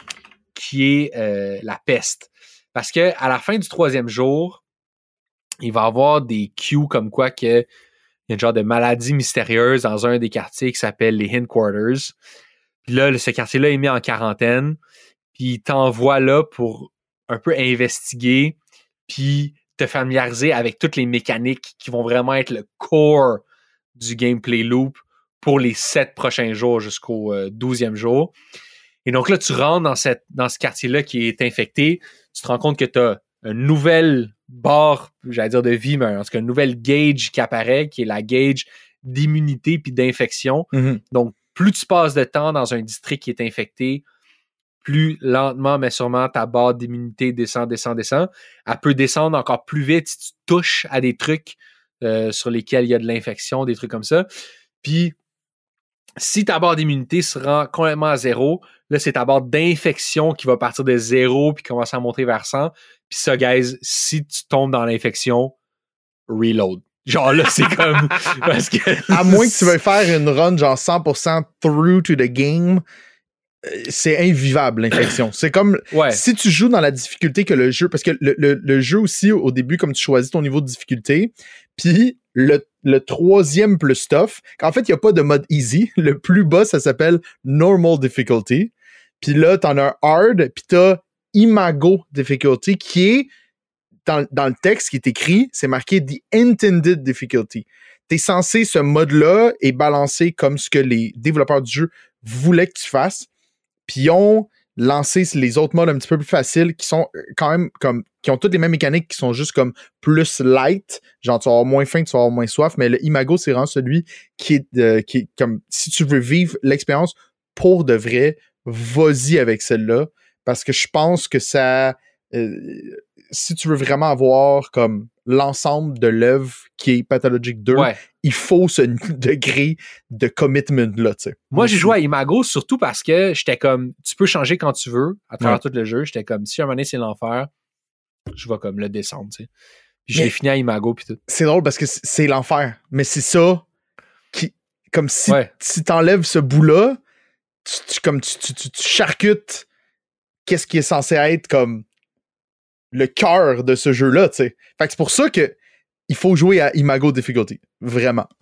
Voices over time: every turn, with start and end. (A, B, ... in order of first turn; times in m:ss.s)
0:00.5-0:04.6 A
0:05.6-0:07.7 A
0:08.3-0:12.1 A
0:12.8-0:14.8 A
0:15.4-0:23.4 A
0:24.0-0:28.3 A
0:29.0-0:44.0 A
0:40.7-0:41.0 B
0:44.8-0:54.3 A
0:54.8-0:55.2 A
0:56.2-1:05.5 A
1:06.3-1:09.8 A
1:09.1-1:12.8 B
1:13.6-1:33.3 B
1:15.9-1:16.2 A
1:34.0-1:43.3 B
1:43.9-2:11.9 B
2:07.7-2:08.0 A
2:11.5-2:17.5 A
2:18.3-2:19.5 A
2:20.0-2:21.2 A
2:21.3-2:23.6 B
2:24.3-2:27.0 B
2:27.6-2:29.6 B
2:30.4-2:31.8 B
2:32.9-2:35.6 B
2:36.1-2:38.3 B